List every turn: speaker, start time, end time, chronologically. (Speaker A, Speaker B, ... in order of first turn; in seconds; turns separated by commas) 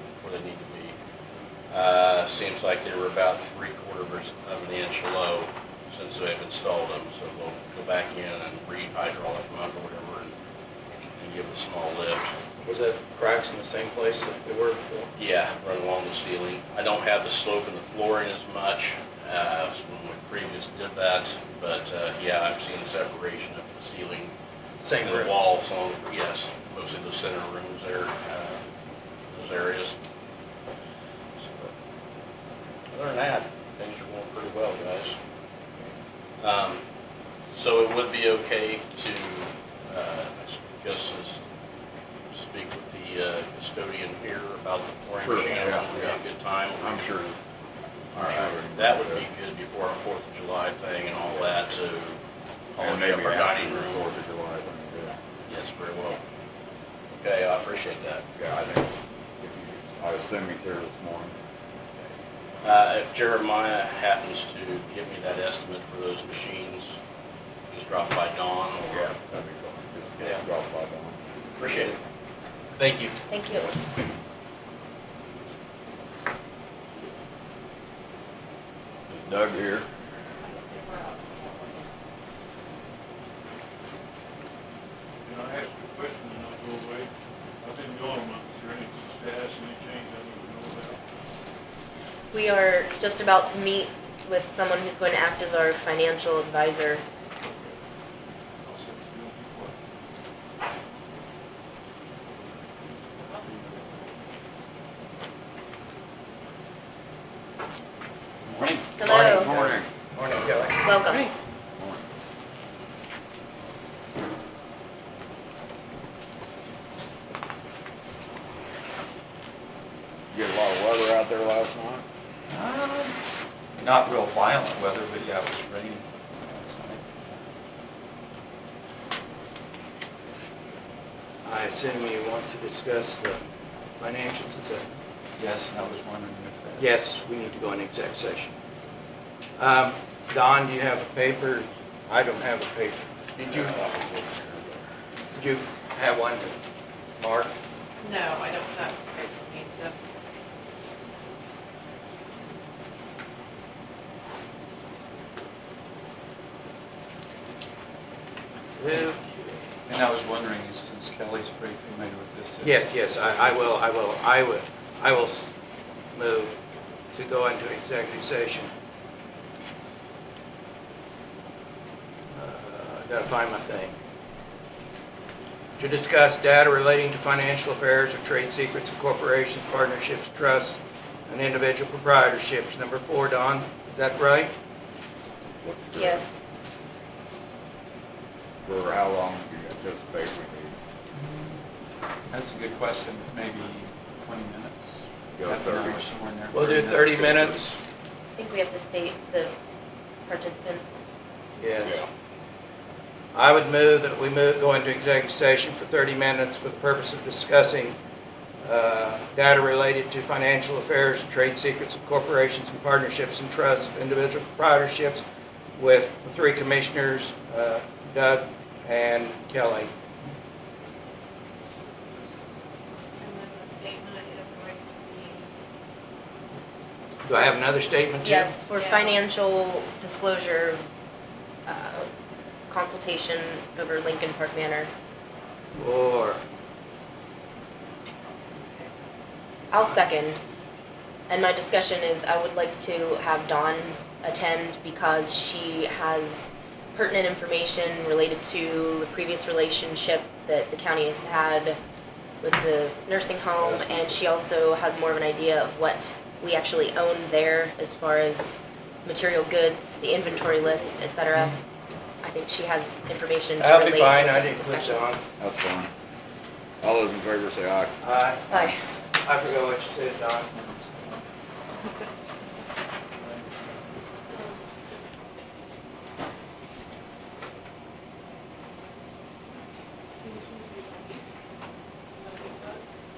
Speaker A: 0.2-0.9, Speaker A: 1.7-10.3, Speaker A: 11.1-12.3, Speaker B: 12.6-15.1, Speaker A: 15.2-24.3, Speaker B: 24.8-25.5, Speaker A: 25.0-28.6, Speaker A: 29.3-29.9, Speaker A: 31.4-31.7, Speaker A: 32.9-35.1, Speaker A: 36.4-36.8, Speaker A: 37.5-41.4, Speaker A: 42.3-47.1, Speaker C: 45.1-46.2, Speaker C: 46.8-47.4, Speaker A: 48.1-52.2, Speaker C: 48.1-49.3, Speaker A: 52.8-54.0, Speaker C: 52.8-55.2, Speaker A: 55.5-56.2, Speaker A: 57.1-58.2, Speaker C: 58.4-61.3, Speaker A: 62.6-67.0, Speaker A: 67.7-69.2, Speaker C: 68.9-71.2, Speaker A: 70.2-70.4, Speaker A: 71.6-72.0, Speaker A: 72.8-73.2, Speaker D: 73.3-73.7, Speaker C: 79.1-79.9, Speaker E: 80.6-81.7, Speaker F: 85.2-87.1, Speaker F: 87.6-91.0, Speaker D: 92.3-97.0, Speaker F: 97.4-97.8, Speaker F: 98.6-99.7, Speaker F: 103.4-103.8, Speaker G: 108.5-108.9, Speaker D: 109.0-109.5, Speaker C: 109.0-109.9, Speaker B: 109.0-110.8, Speaker D: 110.8-111.3, Speaker C: 111.8-112.0, Speaker C: 120.3-122.0, Speaker G: 122.5-123.2, Speaker G: 123.7-127.5, Speaker B: 131.4-133.4, Speaker B: 134.0-134.9, Speaker G: 135.4-137.0, Speaker B: 136.8-138.5, Speaker B: 139.6-143.8, Speaker C: 143.5-144.7, Speaker B: 145.3-146.6, Speaker B: 147.2-147.5, Speaker E: 148.0-150.0, Speaker B: 158.8-159.7, Speaker G: 159.9-163.7, Speaker B: 162.6-165.4, Speaker B: 166.1-166.6, Speaker B: 167.1-168.7, Speaker B: 172.3-173.9, Speaker B: 175.8-184.5, Speaker C: 185.6-186.2, Speaker D: 185.9-186.4, Speaker C: 188.6-190.8, Speaker G: 191.2-191.6, Speaker G: 192.3-197.7, Speaker C: 195.3-196.1, Speaker B: 196.5-197.7, Speaker D: 198.3-199.5, Speaker D: 200.2-201.0, Speaker B: 201.6-202.0, Speaker B: 203.3-207.9, Speaker B: 208.6-215.2, Speaker B: 215.8-219.9, Speaker E: 223.2-225.5, Speaker B: 227.2-228.5, Speaker D: 228.2-230.8, Speaker E: 228.8-229.1, Speaker D: 231.7-232.1, Speaker D: 232.7-234.9, Speaker B: 235.8-236.4, Speaker D: 239.7-240.4, Speaker D: 241.3-251.8, Speaker D: 252.4-261.6, Speaker D: 262.2-265.0, Speaker B: 263.6-265.2, Speaker C: 265.4-265.9, Speaker C: 266.8-267.9, Speaker B: 268.0-271.2, Speaker D: 268.5-268.8, Speaker E: 274.3-275.0, Speaker E: 280.2-281.2, Speaker E: 282.2-282.9